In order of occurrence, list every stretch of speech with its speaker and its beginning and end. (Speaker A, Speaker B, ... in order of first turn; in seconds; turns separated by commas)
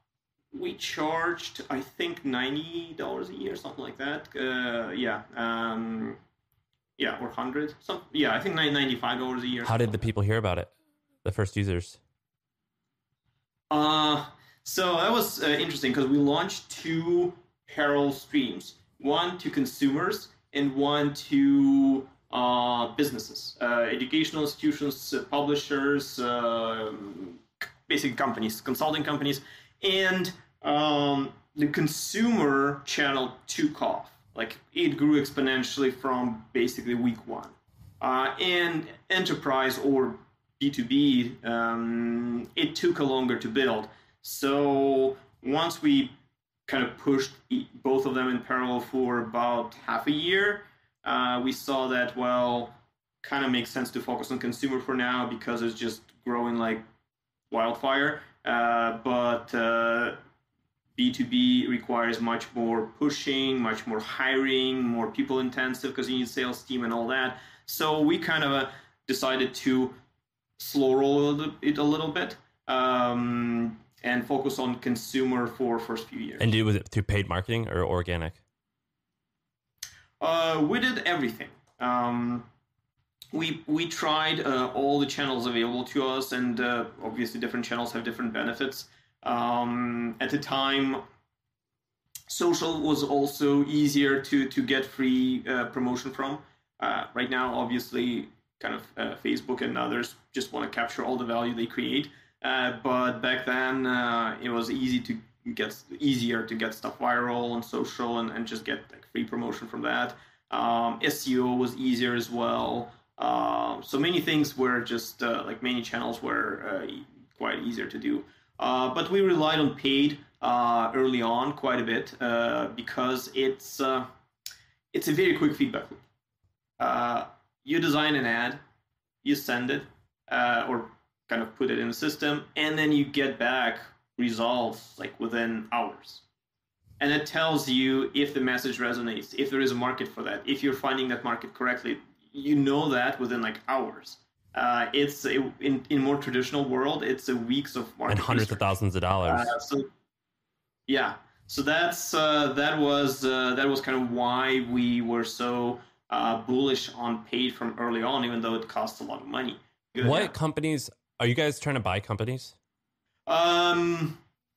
Speaker A: 0.5-6.2, Speaker A: 7.0-10.0, Speaker B: 9.7-10.7, Speaker B: 11.2-12.0, Speaker A: 13.7-46.1, Speaker A: 46.7-56.8, Speaker A: 57.5-60.2, Speaker A: 61.0-70.0, Speaker A: 70.6-76.5, Speaker B: 76.4-78.4, Speaker A: 80.2-82.5, Speaker A: 83.3-91.0, Speaker A: 92.3-124.1, Speaker A: 124.9-126.0, Speaker A: 126.8-128.6, Speaker A: 129.2-136.2, Speaker A: 137.0-148.7, Speaker B: 148.1-149.5, Speaker A: 149.2-149.9, Speaker A: 150.9-160.3, Speaker B: 160.0-162.5, Speaker A: 163.3-164.2